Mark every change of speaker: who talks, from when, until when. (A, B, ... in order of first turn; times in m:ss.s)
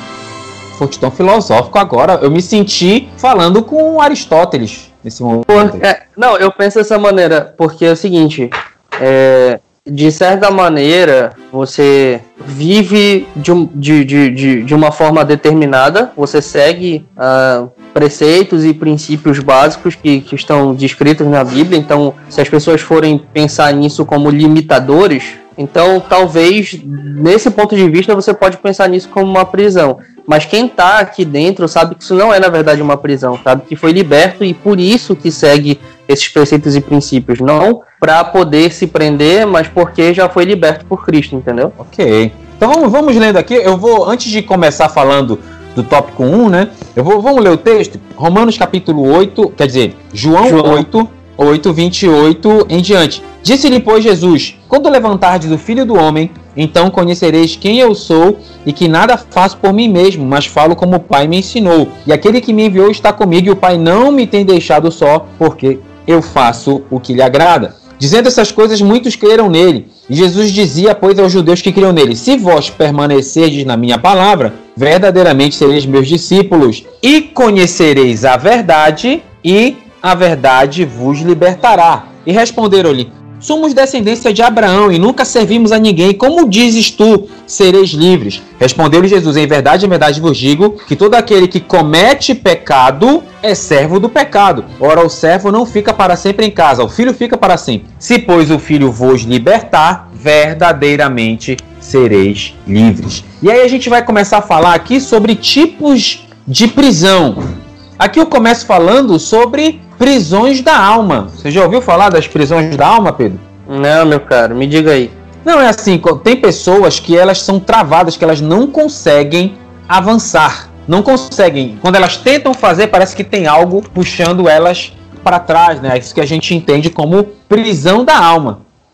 0:00.7-0:05.8 A
0:05.5-0:41.7 B
0:41.8-1:47.4 A
0:50.4-0:50.9 B
1:48.0-1:53.4 A
1:53.7-1:55.1 B
1:55.4-2:08.6 A